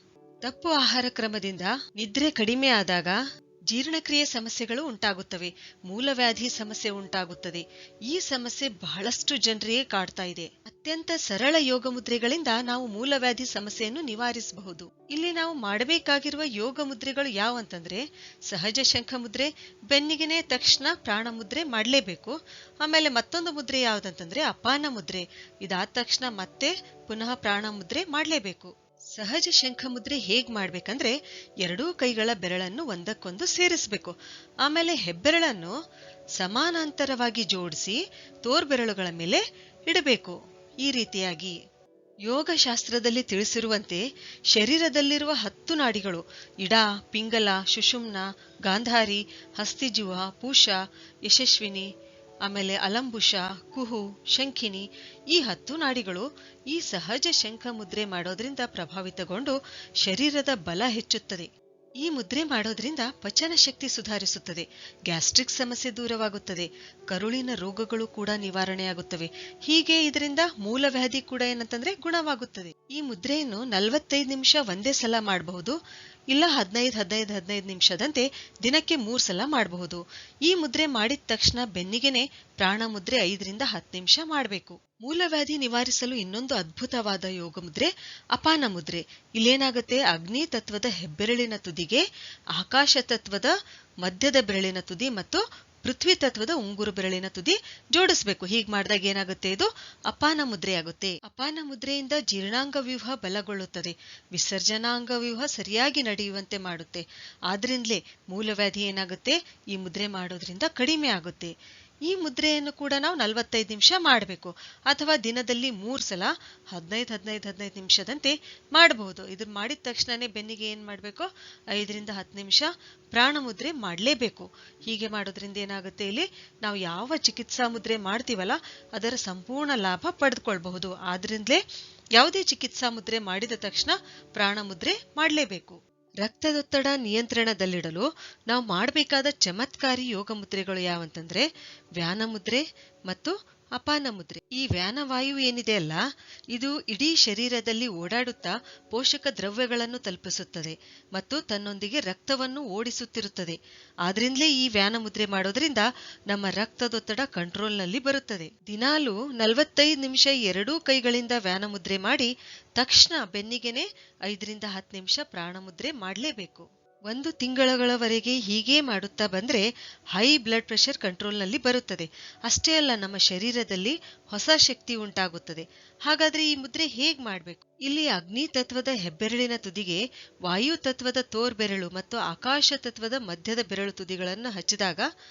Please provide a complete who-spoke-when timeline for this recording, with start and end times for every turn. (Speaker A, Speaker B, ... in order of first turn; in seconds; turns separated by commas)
Speaker A: 0.4-3.2, Speaker A: 3.7-35.7, Speaker A: 36.4-41.5, Speaker A: 42.3-51.9, Speaker A: 52.5-61.5, Speaker A: 62.0-75.8, Speaker A: 76.3-92.0, Speaker A: 92.6-111.5, Speaker A: 112.1-131.6, Speaker A: 132.2-146.0, Speaker A: 146.5-185.1